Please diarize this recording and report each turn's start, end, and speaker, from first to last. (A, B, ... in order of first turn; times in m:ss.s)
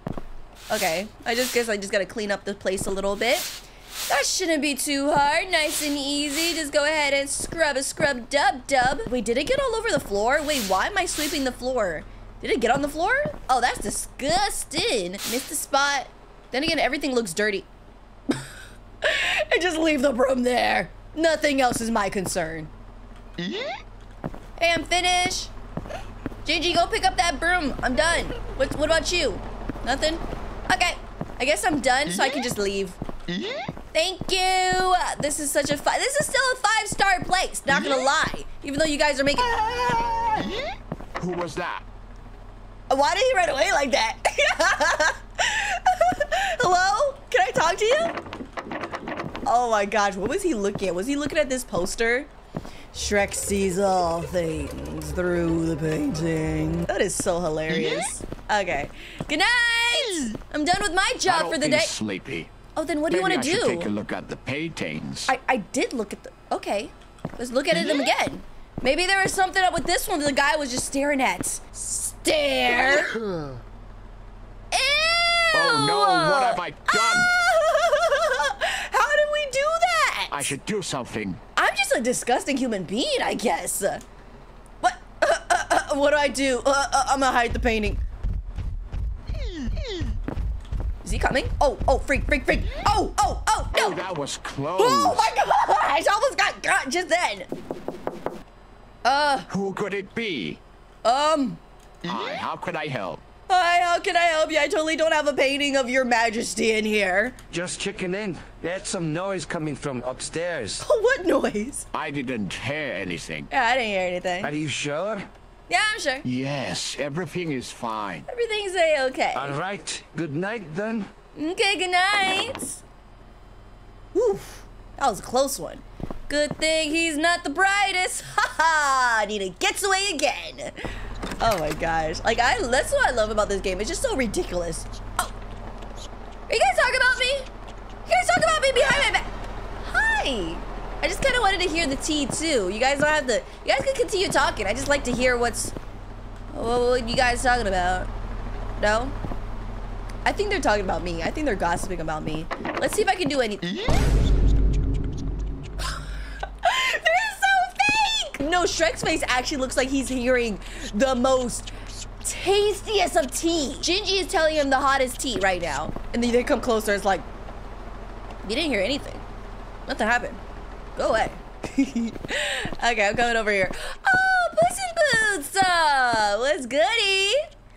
0:00.7-0:17.7 A
0:19.0-0:22.7 A
0:24.6-0:25.5 A
0:26.4-0:33.0 A
0:33.9-0:40.5 A
0:41.2-0:41.8 B
0:42.9-0:48.1 A
0:49.4-0:52.3 A
0:52.9-1:01.9 A
1:01.2-1:02.5 B
1:02.7-1:03.9 A
1:03.1-1:05.3 B
1:05.3-1:13.1 A
1:14.7-1:20.5 A
1:15.5-1:17.3 B
1:20.3-1:21.4 B
1:21.6-1:24.0 A
1:24.8-1:28.0 A
1:31.0-1:34.0 A
1:33.7-1:35.3 B
1:34.8-1:37.5 A
1:39.0-1:39.5 A
1:39.5-1:40.6 B
1:41.0-1:41.6 A
1:42.0-1:43.2 B
1:43.5-1:47.4 A
1:47.5-1:50.8 C
1:50.8-1:51.8 A
1:51.9-1:53.5 B
1:53.5-1:54.5 A
1:54.4-1:55.2 C
1:55.7-1:56.2 A
1:56.2-1:58.3 B
1:58.3-1:59.6 A
1:59.3-2:01.1 C
2:01.3-2:02.8 A
2:04.1-2:10.8 A
2:11.4-2:15.3 A
2:16.5-2:17.5 A
2:18.0-2:19.3 A
2:19.8-2:25.7 A
2:26.5-2:28.1 A
2:28.8-2:29.1 A
2:30.2-2:33.7 A
2:35.8-2:41.7 A
2:42.2-2:47.2 A
2:48.4-2:49.2 A
2:49.8-2:50.4 A
2:51.0-2:57.4 A